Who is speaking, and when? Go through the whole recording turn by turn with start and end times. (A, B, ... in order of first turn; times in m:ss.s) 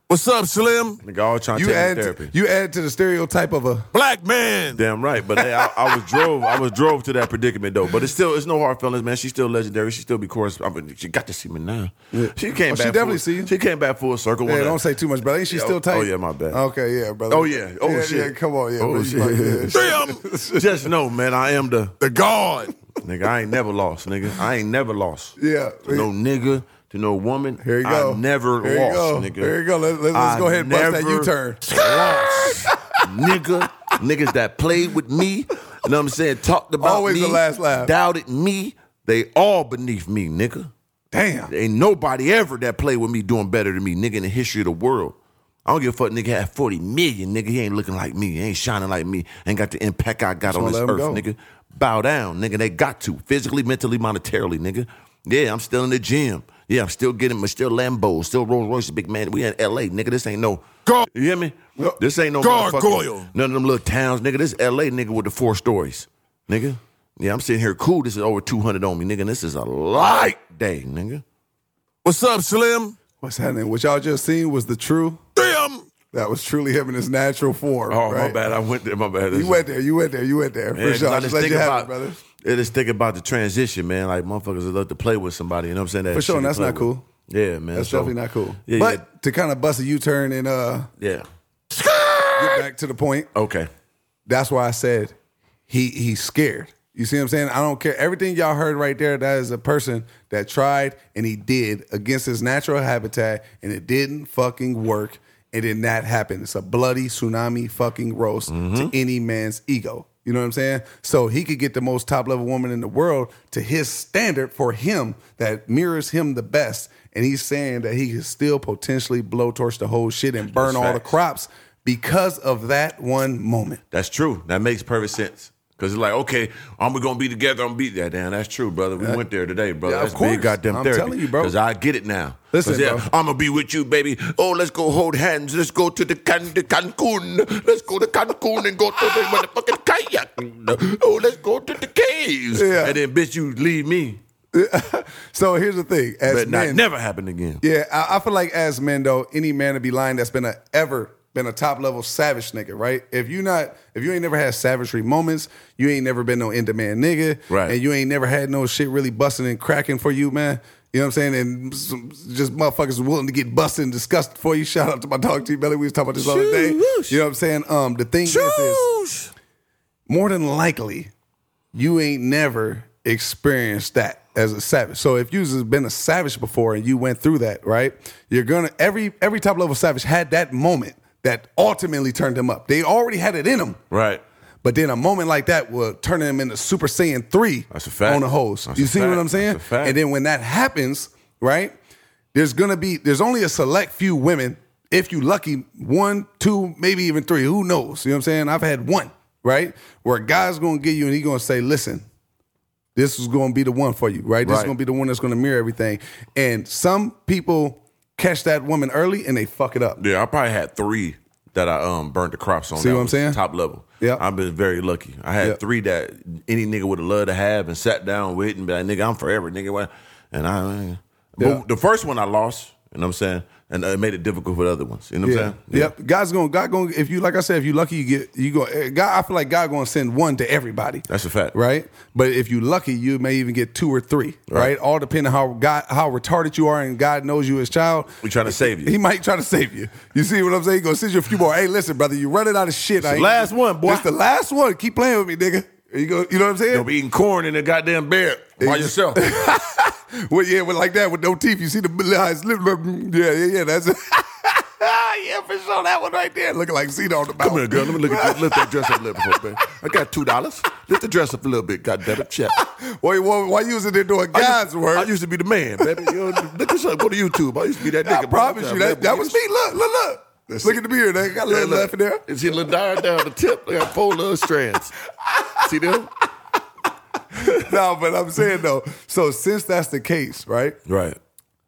0:00.1-0:01.0 A
0:01.0-0:02.3 B
0:01.6-0:03.9 C
0:03.9-0:04.8 A
0:04.7-0:14.8 B
0:05.4-0:06.2 C
0:12.1-0:13.5 C
0:14.4-0:20.9 C
0:15.5-0:16.6 B
0:17.3-0:22.0 B
0:19.7-0:20.2 A
0:22.0-0:22.7 A
0:23.0-0:29.6 B
0:25.4-0:26.1 C
0:27.6-0:33.4 C
0:30.1-0:40.7 B
0:31.8-0:32.6 A
0:36.8-0:37.9 C
0:41.1-0:41.5 C
0:41.5-1:11.2 B
0:50.5-0:51.2 C
1:02.4-1:03.3 A
1:12.0-1:13.0 A
1:13.2-1:15.2 C
1:15.4-1:15.8 A
1:16.1-1:18.4 C
1:17.9-1:19.7 B
1:19.3-1:22.2 C
1:20.8-1:29.0 B
1:26.1-1:27.0 C
1:27.7-1:30.9 C
1:31.0-1:31.3 B
1:31.8-1:32.4 A
1:32.4-1:33.3 C
1:33.3-1:33.7 B
1:34.3-1:35.2 C
1:35.7-2:03.8 C
1:48.5-1:48.9 B
2:00.4-2:01.2 B
2:03.9-2:24.2 B
2:09.8-2:11.6 C
2:12.5-2:13.1 C
2:22.5-2:23.0 C
2:24.5-2:26.8 C
2:26.3-2:27.6 B
2:27.6-2:48.9 C
2:37.5-2:37.8 B
2:46.2-2:47.2 B
2:48.3-2:49.1 A
2:50.1-2:51.1 C
2:51.7-3:03.8 C
3:03.9-3:04.2 B
3:04.6-3:11.8 C
3:07.7-3:10.0 B
3:12.3-3:22.0 C
3:23.0-3:30.0 C
3:24.4-3:24.7 B
3:30.0-3:45.9 B
3:32.8-3:33.4 C
3:41.4-3:41.6 C
3:45.2-4:06.9 C
3:51.1-3:51.6 B
3:58.2-3:59.0 B
4:03.0-4:04.1 B
4:06.7-4:09.3 B
4:08.6-4:19.4 C
4:17.4-4:22.6 B
4:22.6-4:25.1 C
4:24.3-4:29.4 B
4:25.8-4:26.2 C
4:27.9-4:32.2 C
4:30.5-4:30.8 B
4:31.4-4:35.0 B
4:35.6-4:36.1 B
4:37.3-4:40.8 C
4:37.4-4:37.6 B
4:40.9-4:41.2 B